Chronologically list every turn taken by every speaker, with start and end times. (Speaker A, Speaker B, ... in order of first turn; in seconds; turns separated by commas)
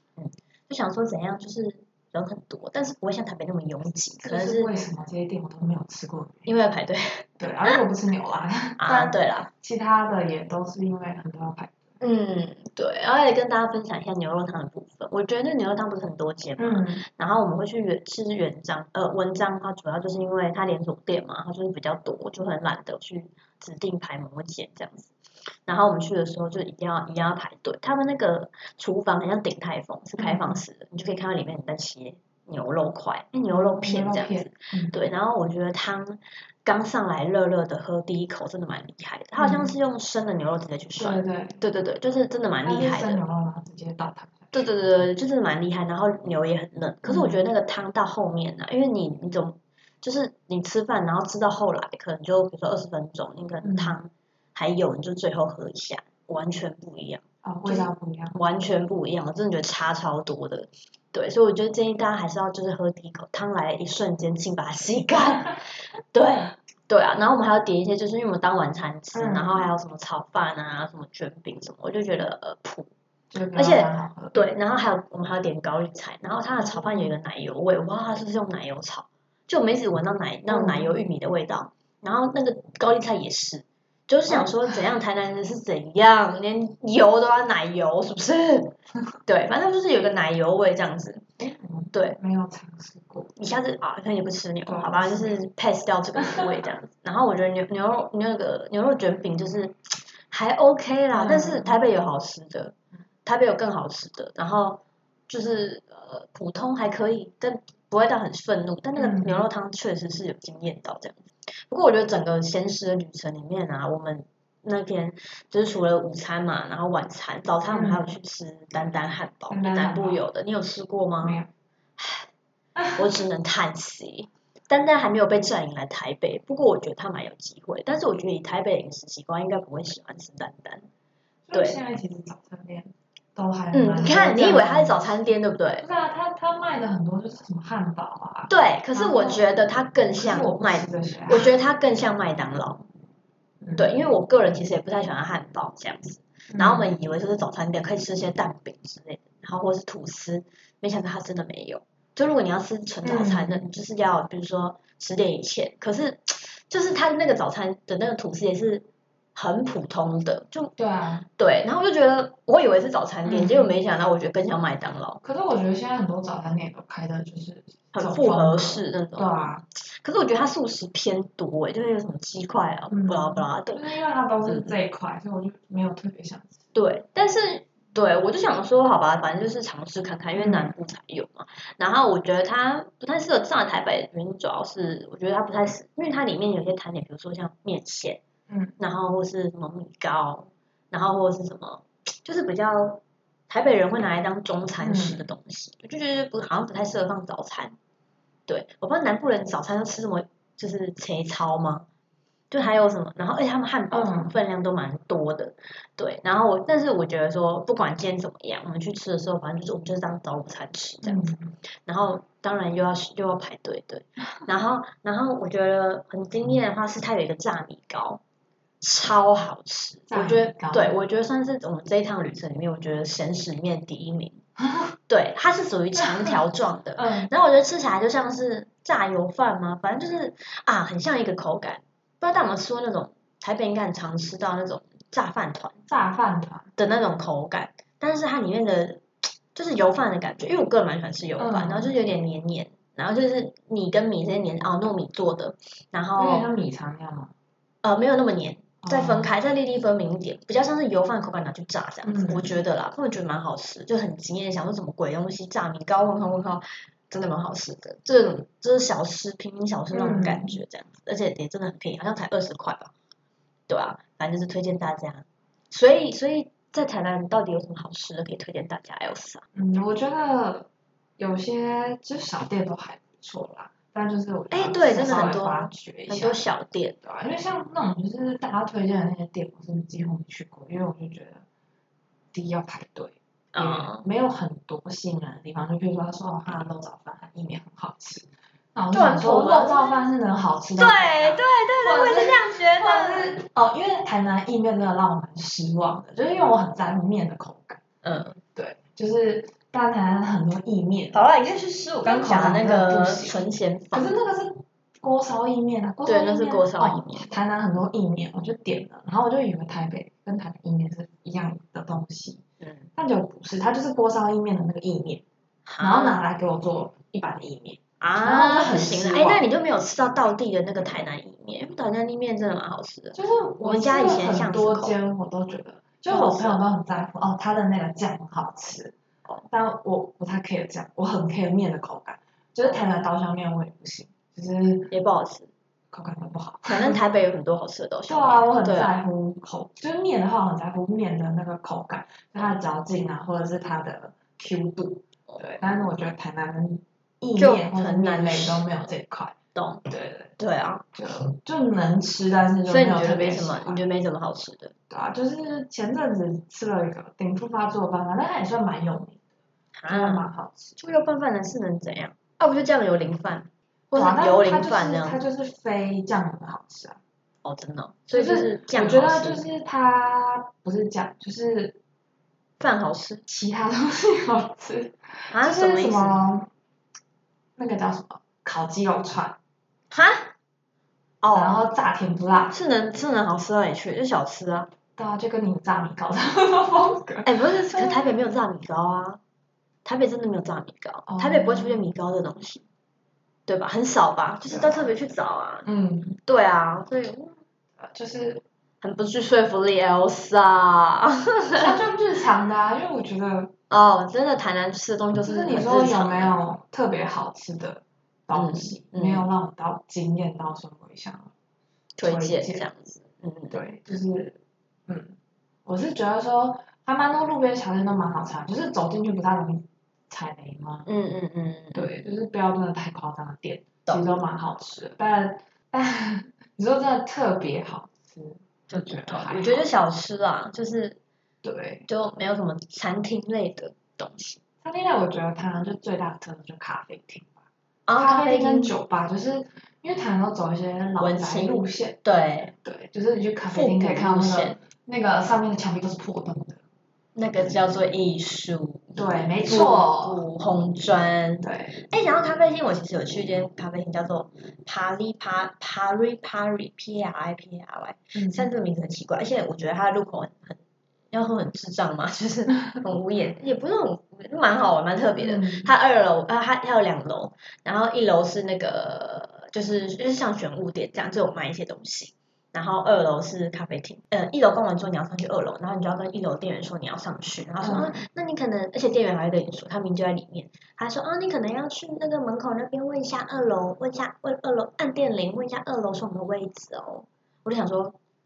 Speaker A: 0.2-4.7, Speaker B: 4.2-6.5, Speaker A: 6.5-7.8, Speaker B: 7.4-11.9, Speaker A: 8.8-9.5, Speaker A: 12.0-25.1, Speaker B: 16.6-17.0, Speaker A: 25.6-43.2, Speaker B: 30.2-30.6, Speaker B: 33.5-35.0, Speaker B: 39.4-39.7, Speaker B: 41.0-41.6, Speaker B: 42.6-44.7, Speaker A: 44.5-65.6, Speaker B: 47.0-47.4, Speaker B: 53.6-54.0, Speaker B: 57.4-58.4, Speaker A: 66.1-72.9, Speaker B: 69.1-69.7, Speaker B: 73.3-74.5, Speaker A: 73.5-88.8, Speaker B: 76.6-77.1, Speaker B: 80.5-80.9, Speaker B: 84.3-84.7, Speaker A: 89.3-91.2, Speaker B: 91.4-93.3, Speaker A: 91.9-92.2, Speaker A: 93.3-102.7, Speaker B: 94.7-95.4, Speaker B: 101.1-101.8, Speaker A: 103.2-121.4, Speaker B: 109.0-109.4, Speaker B: 117.7-118.0, Speaker B: 119.5-120.2, Speaker B: 121.2-121.5, Speaker A: 122.0-122.3, Speaker A: 122.9-130.8, Speaker B: 131.5-135.1, Speaker A: 133.7-135.8, Speaker B: 135.8-139.5, Speaker A: 138.5-142.8, Speaker B: 140.1-141.5, Speaker B: 143.6-143.9, Speaker A: 143.8-160.7, Speaker B: 146.5-146.9, Speaker B: 153.0-153.6, Speaker B: 160.8-161.3, Speaker A: 161.4-165.2, Speaker B: 163.2-163.7, Speaker B: 165.2-169.6, Speaker A: 167.9-173.8, Speaker B: 172.9-176.6, Speaker A: 174.5-174.7, Speaker A: 176.7-188.2, Speaker B: 180.4-180.7, Speaker B: 188.5-188.8, Speaker A: 188.8-197.7, Speaker B: 194.8-195.2, Speaker A: 198.5-201.8, Speaker A: 202.5-211.3, Speaker B: 203.9-204.3, Speaker B: 211.0-211.5, Speaker A: 211.8-218.2, Speaker A: 218.8-224.4, Speaker B: 220.1-220.9, Speaker B: 224.6-224.9, Speaker A: 225.1-235.8, Speaker B: 227.0-227.3, Speaker B: 235.9-236.7, Speaker A: 236.8-246.5, Speaker B: 241.4-241.9, Speaker B: 246.2-247.3, Speaker A: 247.8-262.9, Speaker B: 248.8-249.3, Speaker B: 252.0-252.5, Speaker B: 259.9-260.6, Speaker A: 263.7-269.4, Speaker B: 269.5-276.4, Speaker A: 274.5-277.0, Speaker B: 277.0-281.4, Speaker B: 282.3-297.8, Speaker A: 283.5-284.0, Speaker A: 288.9-290.0, Speaker A: 290.8-293.4, Speaker A: 298.0-298.4, Speaker B: 298.5-301.2, Speaker A: 301.1-304.1, Speaker B: 302.0-303.4, Speaker B: 303.9-312.4, Speaker A: 306.1-307.3, Speaker A: 312.6-312.9, Speaker B: 312.9-315.2, Speaker A: 315.6-316.2, Speaker B: 315.8-319.4, Speaker A: 318.0-324.9, Speaker B: 323.1-334.9, Speaker A: 326.1-326.6, Speaker A: 334.9-335.5, Speaker B: 335.9-337.0, Speaker A: 336.7-338.9, Speaker B: 338.1-349.3, Speaker A: 347.4-348.6, Speaker A: 349.5-349.8, Speaker B: 349.9-350.3, Speaker A: 350.4-350.8, Speaker B: 350.9-353.8, Speaker A: 352.7-354.7, Speaker B: 354.9-359.2, Speaker A: 359.8-360.3, Speaker B: 359.9-360.8, Speaker A: 360.8-365.2, Speaker B: 363.9-367.0, Speaker A: 367.4-369.4, Speaker B: 368.1-371.8, Speaker A: 372.6-373.2, Speaker B: 373.3-376.5, Speaker A: 375.3-376.3, Speaker B: 377.6-379.4, Speaker A: 379.9-380.3, Speaker A: 381.2-381.6, Speaker B: 381.3-382.6, Speaker A: 382.5-384.7, Speaker B: 385.0-388.1, Speaker A: 387.2-389.2, Speaker A: 389.8-392.6, Speaker B: 391.1-391.8, Speaker A: 393.5-395.6, Speaker B: 394.5-394.8, Speaker B: 395.6-396.2, Speaker A: 396.2-397.4, Speaker B: 397.8-398.4, Speaker A: 398.8-401.7, Speaker B: 401.5-403.5, Speaker A: 403.7-406.4, Speaker B: 405.2-411.3, Speaker A: 408.3-409.3, Speaker A: 411.9-413.6, Speaker B: 412.0-412.6, Speaker B: 413.5-415.1, Speaker B: 415.6-420.9, Speaker A: 420.9-421.9, Speaker B: 421.7-429.6, Speaker A: 428.7-431.0, Speaker B: 431.4-431.9, Speaker A: 431.9-434.4, Speaker B: 434.6-437.3, Speaker A: 437.9-438.7, Speaker B: 437.9-442.0, Speaker A: 441.0-442.5, Speaker B: 442.6-446.6, Speaker A: 443.5-444.6, Speaker A: 447.1-460.6, Speaker B: 448.9-450.2, Speaker B: 451.4-451.8, Speaker B: 458.1-458.5, Speaker A: 461.1-487.9, Speaker B: 465.2-465.7, Speaker B: 477.6-478.0